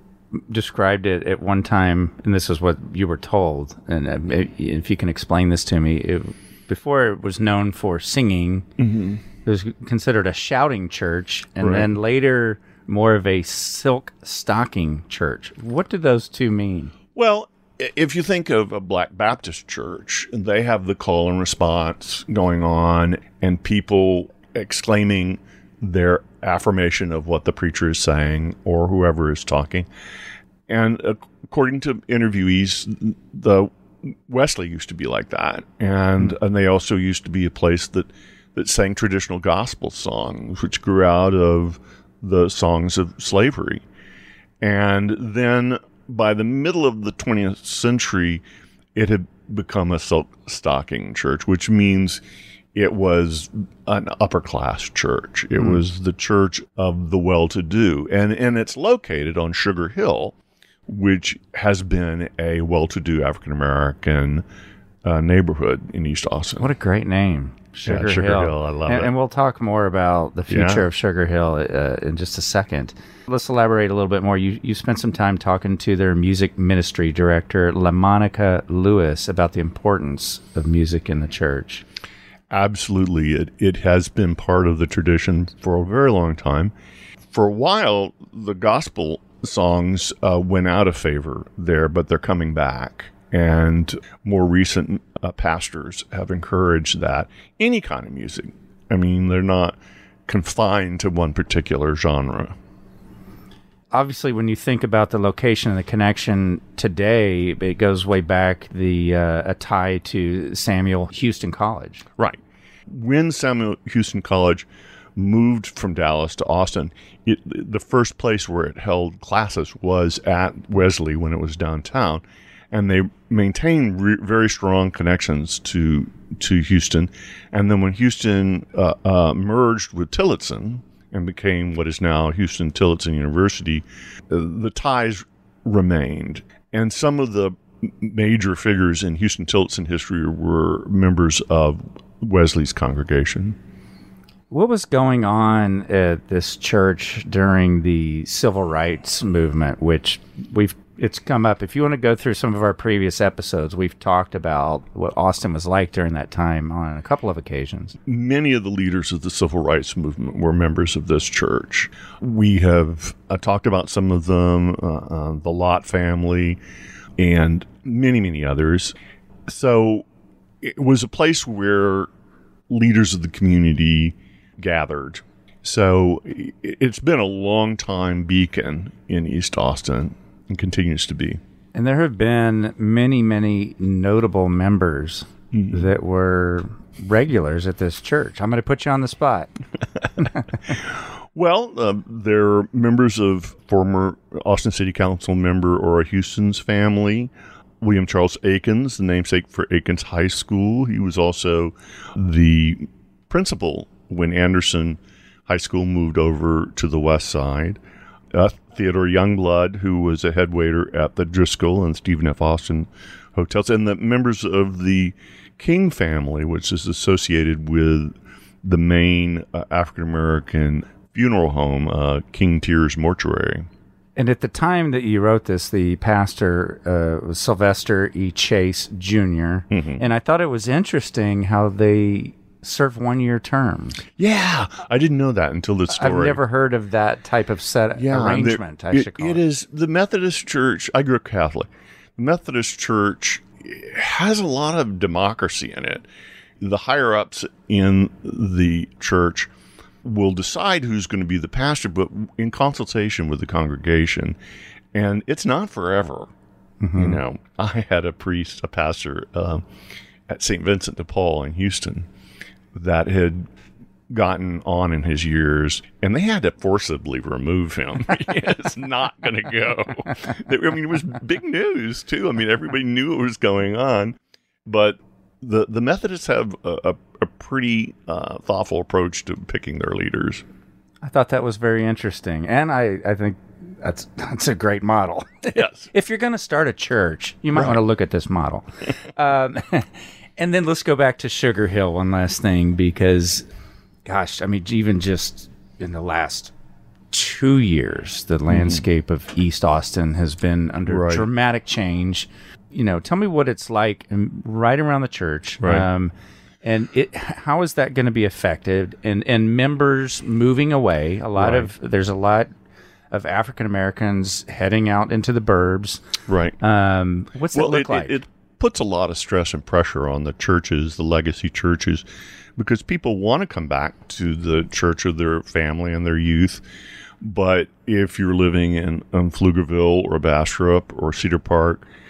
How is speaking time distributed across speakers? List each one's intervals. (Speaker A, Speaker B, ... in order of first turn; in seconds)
Speaker A: 0.3-8.7, 9.4-16.9, 66.6-81.8, 103.9-112.0, 144.5-157.9, 181.7-189.5, 190.2-190.4, 224.2-234.0, 235.9-239.4, 256.8-257.2, 281.0-293.5, 294.1-296.5, 297.1-306.1, 306.6-312.5, 313.1-316.0, 316.6-318.2
Speaker B: 8.8-9.2, 11.6-11.9, 17.1-29.9, 30.7-43.8, 44.6-48.4, 48.9-52.2, 52.7-60.3, 60.9-64.4, 65.0-66.7, 67.9-69.1, 70.5-70.8, 82.5-86.7, 87.3-102.5, 112.2-143.6, 158.1-166.6, 167.2-168.9, 169.5-170.0, 170.6-172.1, 172.7-181.4, 185.5-185.9, 191.3-207.8, 208.3-223.7, 229.7-230.0, 234.2-236.4, 237.9-246.1, 246.6-249.5, 250.0-254.3, 254.9-256.3, 256.9-259.6, 260.3-262.1, 262.7-263.5, 264.1-280.4, 285.5-285.9, 298.5-298.8, 300.9-301.3, 305.6-305.9, 311.4-311.7, 316.3-316.6, 317.5-322.0, 322.6-326.6, 327.2-331.8